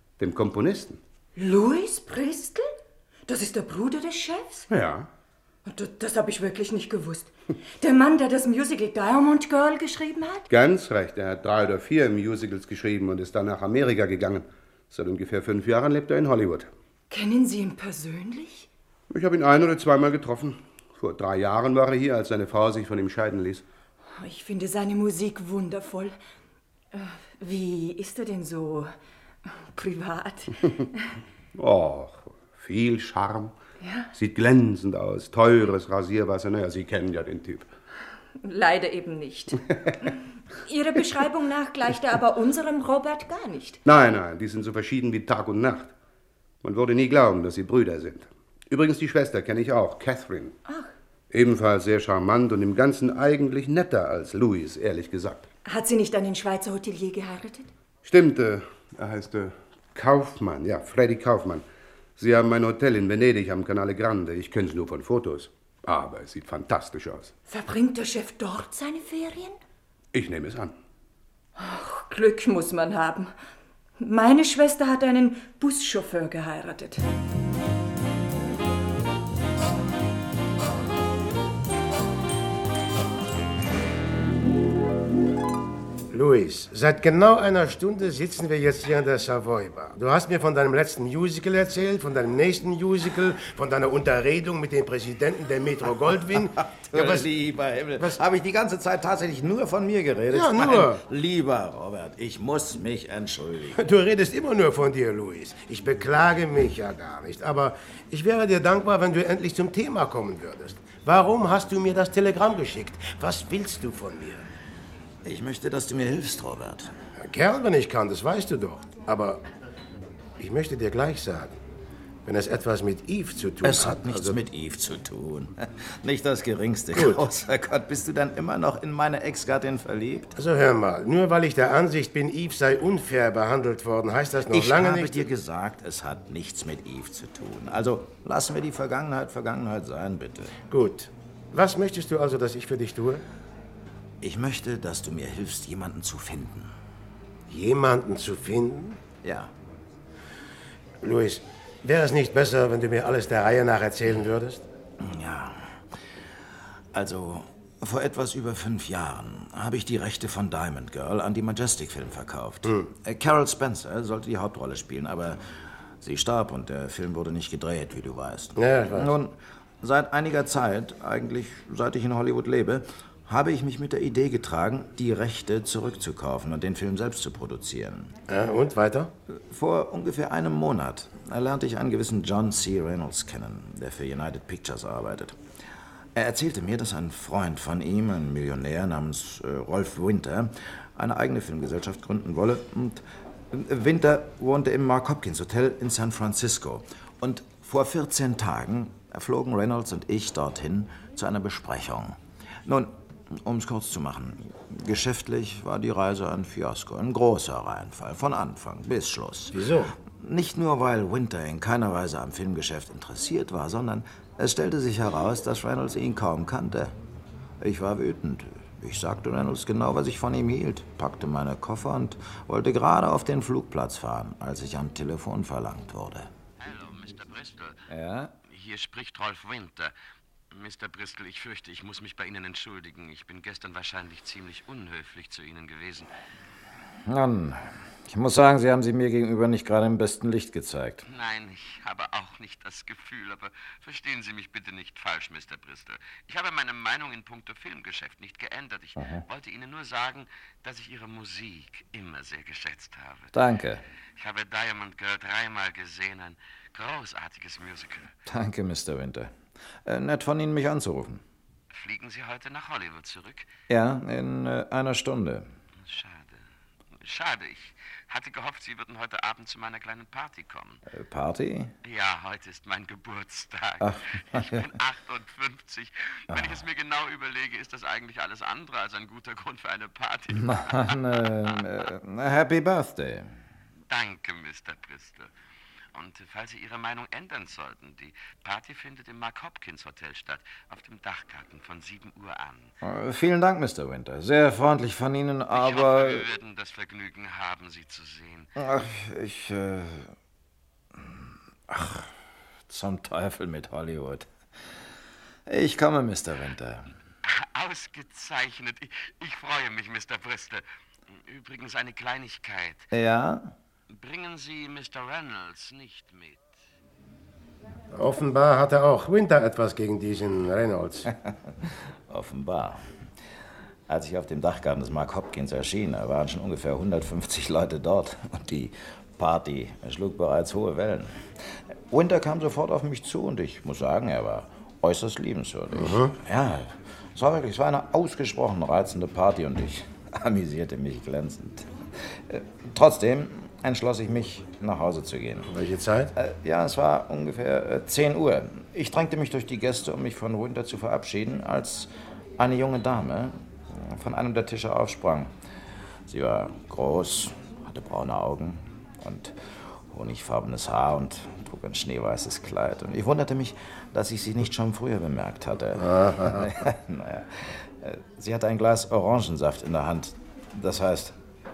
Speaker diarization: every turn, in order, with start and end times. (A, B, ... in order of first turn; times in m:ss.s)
0:00.2-0:01.0 A
0:01.4-0:02.7 B
0:03.3-0:04.6 B
0:04.7-0:05.1 A
0:05.6-0:10.5 B
0:10.5-0:16.7 A
0:17.1-0:18.7 B
0:19.1-0:23.6 A
0:24.2-0:26.2 B
0:26.9-0:28.9 B
0:29.7-0:30.6 B
0:31.5-0:33.5 A
0:33.8-0:34.1 B
0:34.1-0:37.7 A
0:38.4-0:39.6 B
0:40.6-0:43.8 B
0:43.8-0:45.9 A
0:46.6-0:50.6 A
0:51.3-0:55.5 A
0:55.6-0:57.7 B
0:58.0-1:01.6 A
1:02.2-1:07.3 A
1:07.5-1:09.6 B
1:10.1-1:10.7 A
1:11.6-1:13.3 B
1:14.0-1:17.0 B
1:26.1-1:37.2 C
1:36.3-1:43.8 D
1:40.3-1:41.0 C
1:43.8-1:54.4 C
1:55.2-1:56.9 D
1:57.2-1:59.4 C
2:00.4-2:01.5 C
2:02.2-2:04.4 C
2:03.6-2:10.3 D
2:06.9-2:07.2 C
2:10.4-2:15.2 C
2:14.5-2:20.6 D
2:20.7-2:23.2 C
2:24.2-2:26.7 D
2:27.5-2:29.0 C
2:29.2-2:29.5 D
2:31.0-2:34.6 C
2:35.0-2:35.8 D
2:36.9-2:45.4 D
2:46.0-2:58.1 D
2:48.6-2:49.1 C
2:58.3-2:59.1 C
2:59.3-3:05.4 D
3:06.2-3:29.6 D
3:29.5-3:29.9 C
3:30.1-3:37.0 D
3:37.6-3:46.3 D
3:46.6-3:47.8 E
3:47.9-3:48.3 D
3:48.4-3:49.9 E
3:50.5-3:56.1 E
3:57.0-4:01.0 D
4:01.0-4:13.3 E
4:09.0-4:09.2 D
4:13.3-4:13.8 D
4:14.2-4:18.1 E
4:18.2-4:19.3 D
4:19.8-4:21.2 D
4:21.7-4:23.5 E
4:23.7-4:25.5 D
4:25.8-4:26.4 E
4:27.0-4:30.8 E
4:30.9-4:31.7 D
4:31.8-4:40.8 E
4:33.8-4:34.7 D
4:36.3-4:36.6 D
4:40.3-4:43.3 D
4:43.9-4:45.3 E
4:45.9-4:52.7 E
4:52.8-4:56.2 D
4:55.5-4:58.5 E
4:58.6-5:00.1 D
5:01.0-5:02.1 D
5:02.7-5:04.3 D
5:05.5-5:06.9 D
5:07.3-5:12.9 E
5:12.9-5:13.5 D
5:13.9-5:16.5 E
5:17.9-5:21.1 C
5:22.1-5:22.9 D
5:23.9-5:31.2 D
5:31.9-5:45.5 D
5:35.7-5:36.1 C
5:45.5-5:46.1 C
5:46.1-5:55.3 D
5:56.1-5:59.4 D
5:59.9-6:11.2 D
6:05.9-6:06.4 C